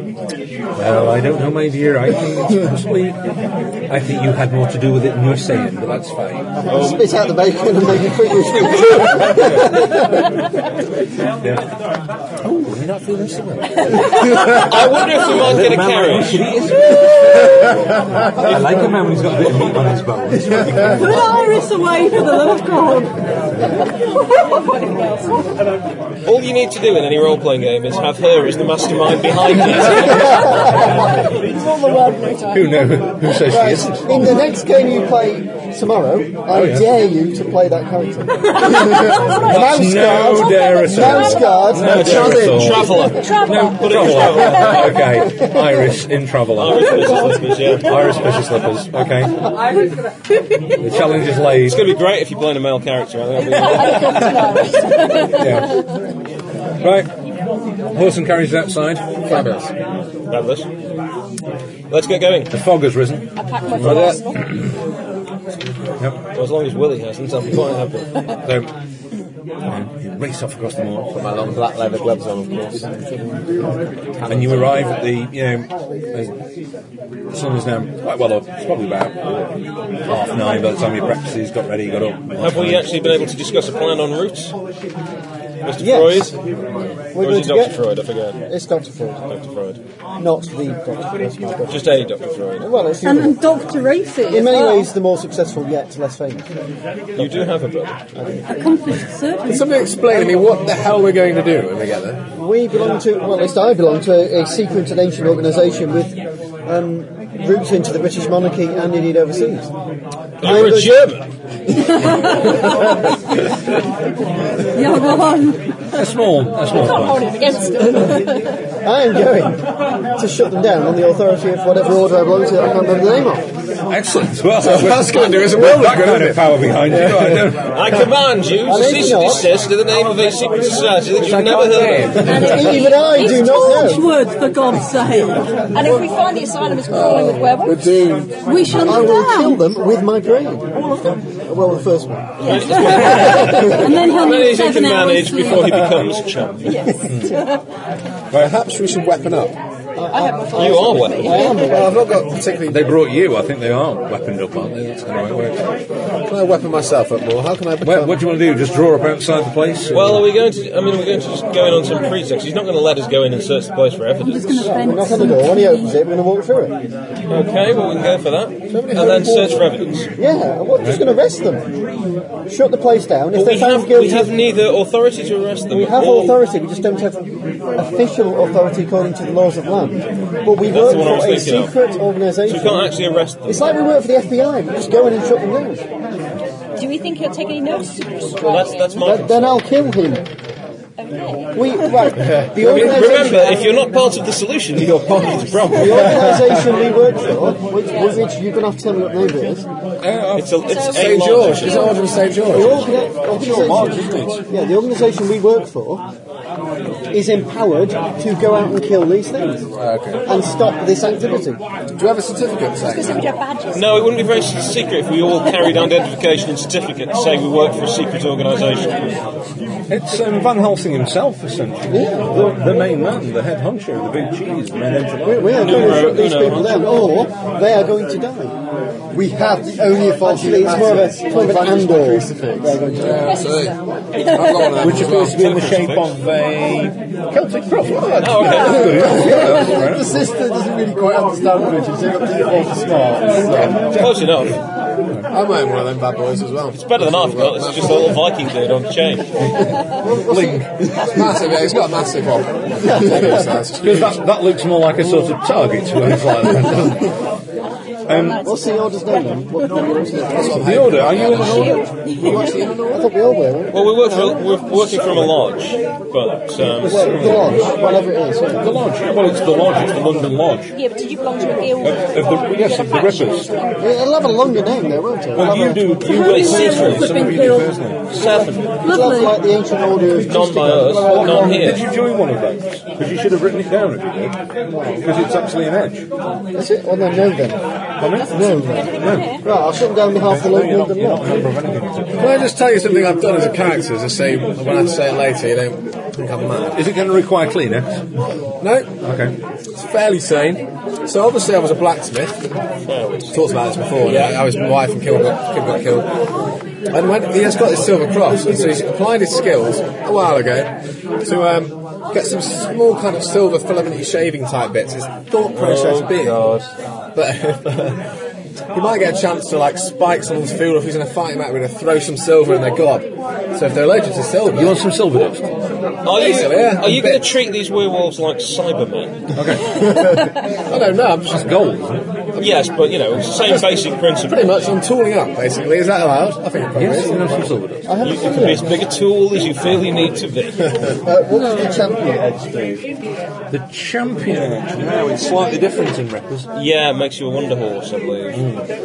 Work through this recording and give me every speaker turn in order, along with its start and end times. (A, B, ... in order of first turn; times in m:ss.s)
0:00.8-0:03.2 A
0:03.9-0:06.5 A
0:06.6-0:10.2 B
0:06.7-0:07.0 C
0:09.1-0:09.7 A
0:12.4-0:17.7 A
0:13.9-0:14.6 D
0:14.2-0:16.5 C
0:18.2-0:21.2 A
0:20.9-0:23.2 E
0:24.1-0:25.5 D
0:26.2-0:30.9 C
0:30.0-0:32.9 D
0:32.5-0:34.4 A
0:33.5-0:42.8 B
0:36.5-0:36.9 A
0:39.3-0:49.4 A
0:40.5-0:41.6 D
0:41.7-0:45.0 C
0:42.8-0:45.2 D
0:46.5-0:48.0 C
0:47.0-0:47.5 D
0:50.8-0:51.9 A
0:51.6-0:54.5 C
0:53.4-0:55.9 D
0:55.3-0:55.8 A
0:56.8-0:57.1 A
0:57.9-0:59.0 A
0:59.2-0:59.7 F
1:00.3-1:00.7 C
1:01.9-1:02.5 C
1:02.5-1:04.2 A
1:03.4-1:04.5 D
1:06.3-1:08.1 C
1:08.4-1:08.7 A
1:09.7-1:11.3 A
1:11.1-1:13.4 F
1:14.1-1:14.9 F
1:14.2-1:16.3 A
1:17.3-1:19.5 A
1:20.1-1:23.2 A
1:22.4-1:24.5 C
1:25.6-1:26.3 C
1:25.8-1:26.3 B
1:27.1-1:27.8 B
1:27.2-1:28.4 C
1:28.4-1:29.2 B
1:29.3-1:29.8 C
1:30.2-1:32.0 B
1:31.7-1:32.7 C
1:32.6-1:33.4 B
1:33.0-1:34.9 E
1:34.3-1:36.5 B
1:37.2-1:38.0 C
1:38.1-1:38.7 B
1:38.4-1:39.8 E
1:39.4-1:42.2 F
1:42.4-1:49.7 B
1:50.4-1:51.1 B
1:50.4-1:51.2 C
1:52.0-1:52.7 E
1:54.7-1:55.8 E
1:55.9-1:57.4 A
1:56.6-1:58.6 D
1:58.8-1:59.6 B
2:00.2-2:03.4 B
2:03.9-2:07.8 A
2:04.6-2:07.6 F
2:07.7-2:12.3 C
2:08.6-2:09.5 B
2:11.2-2:12.5 F
2:12.2-2:13.6 D
2:12.2-2:14.1 B
2:13.0-2:15.6 E
2:15.7-2:18.0 D
2:16.9-2:18.3 F
2:18.4-2:19.6 E
2:18.7-2:20.8 B
2:21.4-2:22.4 B
2:22.4-2:24.0 D
2:22.4-2:26.9 C
2:22.7-2:25.9 E
2:26.6-2:27.6 D
2:28.3-2:29.5 F
2:30.0-2:32.3 B
2:30.1-2:32.0 D
2:30.5-2:31.5 C
2:31.5-2:33.0 F
2:32.7-2:35.6 A
2:36.3-2:38.2 F
2:37.8-2:40.3 A
2:39.9-2:44.9 C
2:44.2-2:45.9 E
2:44.8-2:46.8 B
2:47.3-2:50.1 C
2:48.7-2:49.6 F
2:50.2-2:51.7 B
2:52.5-2:54.3 B
2:53.3-2:56.4 C
2:55.7-3:02.9 B
3:00.6-3:01.7 C
3:02.4-3:03.6 C
3:03.4-3:05.8 B
3:06.8-3:09.2 D
3:08.4-3:09.7 C
3:09.0-3:10.2 B
3:11.0-3:12.2 D
3:11.5-3:13.6 B
3:12.2-3:12.8 F
3:12.5-3:16.4 C
3:12.9-3:13.9 D
3:14.8-3:16.3 F
3:15.7-3:19.6 B
3:17.8-3:18.2 D
3:20.0-3:20.6 A
3:20.3-3:22.1 C
3:20.6-3:22.9 D
3:20.9-3:22.9 F
3:22.4-3:26.0 B
3:23.3-3:24.4 A
3:27.1-3:29.6 B
3:29.8-3:30.2 F
3:30.2-3:31.6 B
3:32.0-3:33.3 F
3:32.8-3:34.0 D
3:33.7-3:39.1 C
3:39.9-3:46.1 A
3:41.9-3:42.2 B
3:45.2-3:48.5 B
3:45.5-3:46.9 C
3:49.1-3:53.0 G
3:49.8-3:53.4 B
3:53.0-3:55.5 F
3:53.1-3:54.9 D
3:54.8-4:00.2 A
3:55.1-3:56.1 C
3:58.2-3:59.3 C
3:58.4-4:04.1 G
3:59.0-4:00.0 B
4:03.6-4:04.5 A
4:03.9-4:04.6 C
4:05.3-4:08.2 F
4:06.8-4:09.3 C
4:09.4-4:10.7 A
4:10.0-4:10.6 B
4:11.0-4:14.1 F
4:12.8-4:13.4 B
4:13.8-4:17.1 A
4:18.0-4:23.2 D
4:18.1-4:18.4 A
4:18.4-4:21.0 B
4:20.3-4:22.8 F
4:20.5-4:21.9 A
4:22.9-4:25.0 B
4:23.7-4:27.2 C
4:26.8-4:28.6 B
4:26.9-4:27.7 A
4:28.6-4:30.7 A
4:30.7-4:33.9 D
4:31.8-4:33.5 A
4:33.8-4:35.9 B
4:35.3-4:38.0 A
4:36.0-4:37.7 E
4:36.0-4:37.2 C
4:38.1-4:38.7 C
4:38.8-4:39.4 E
4:38.8-4:41.7 B
4:40.2-4:41.8 C
4:41.1-4:44.4 A
4:44.7-4:45.0 B
4:44.9-4:46.0 A
4:46.5-4:47.6 B
4:48.0-4:49.4 A
4:48.2-4:49.5 D
4:48.3-4:51.3 B
4:50.2-4:52.4 A
4:52.2-4:56.8 F
4:56.7-4:58.0 A
4:58.6-4:58.9 F
4:59.0-4:59.4 A
4:59.8-5:02.4 F
5:02.9-5:03.4 C
5:03.3-5:06.1 F
5:04.0-5:04.4 C
5:06.9-5:10.7 F
5:11.2-5:16.5 F
5:15.5-5:16.7 C
5:17.1-5:18.0 F
5:18.7-5:24.8 F
5:24.5-5:25.4 A
5:26.0-5:29.2 C
5:26.1-5:27.3 F
5:29.4-5:30.0 A
5:29.8-5:31.5 F
5:31.3-5:32.1 A
5:32.4-5:34.6 C
5:34.2-5:37.5 F
5:36.7-5:38.0 A
5:37.8-5:38.7 B
5:38.0-5:40.8 C
5:41.0-5:42.0 B
5:41.0-5:42.8 G
5:41.3-5:41.8 E
5:43.5-5:46.5 A
5:46.5-5:48.4 C
5:48.3-5:48.6 A